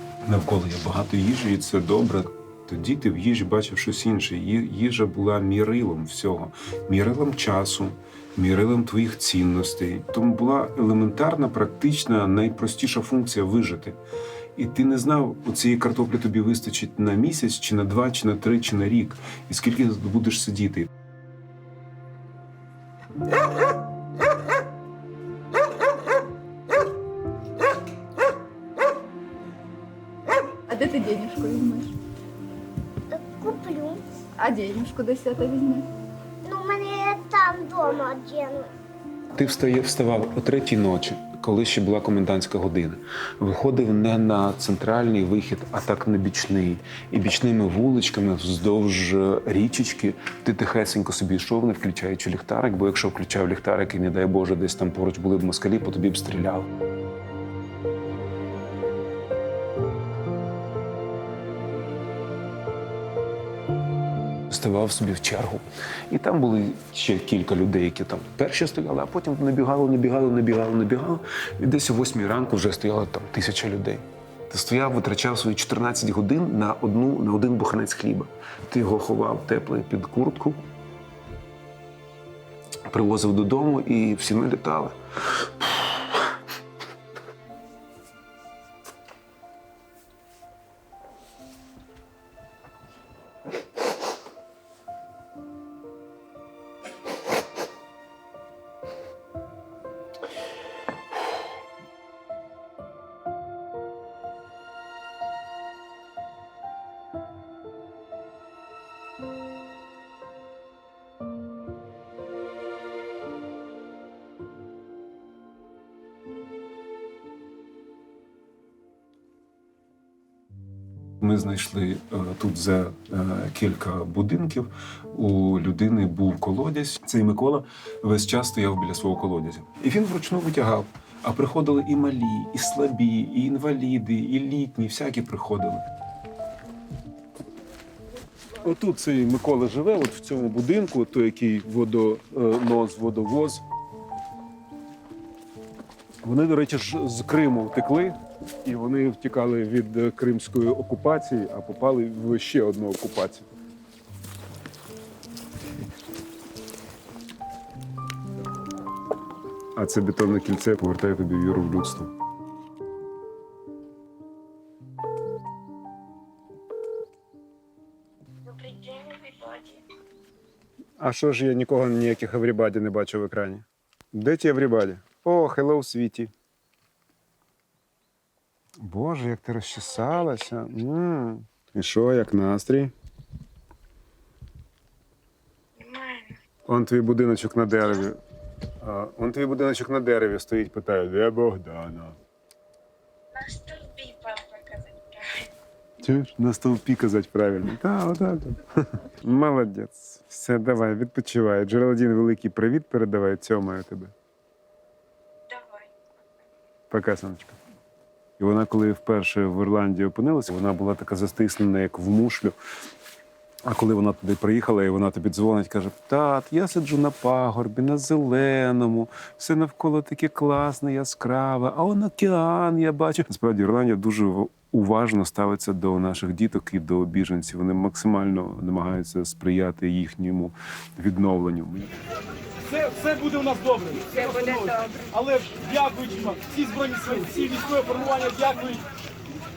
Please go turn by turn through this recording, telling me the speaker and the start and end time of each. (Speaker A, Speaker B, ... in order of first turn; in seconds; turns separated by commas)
Speaker A: 0.2-14.0, Speaker A: 14.6-20.9, Speaker B: 30.6-31.9, Speaker C: 33.1-34.0, Speaker B: 34.4-35.9, Speaker C: 36.4-38.7, Speaker A: 39.3-56.7, Speaker A: 64.5-80.6, Speaker A: 82.9-85.9, Speaker A: 121.2-135.9, Speaker A: 138.6-143.6, Speaker A: 146.2-153.5, Speaker A: 159.8-162.1, Speaker C: 168.6-169.7, Speaker A: 171.0-176.3, Speaker A: 178.8-182.9, Speaker A: 186.6-188.2, Speaker A: 188.8-192.2, Speaker C: 193.3-195.4, Speaker A: 196.0-204.1, Speaker A: 206.9-207.6, Speaker A: 208.4-212.6, Speaker A: 213.6-232.0, Speaker D: 232.7-238.8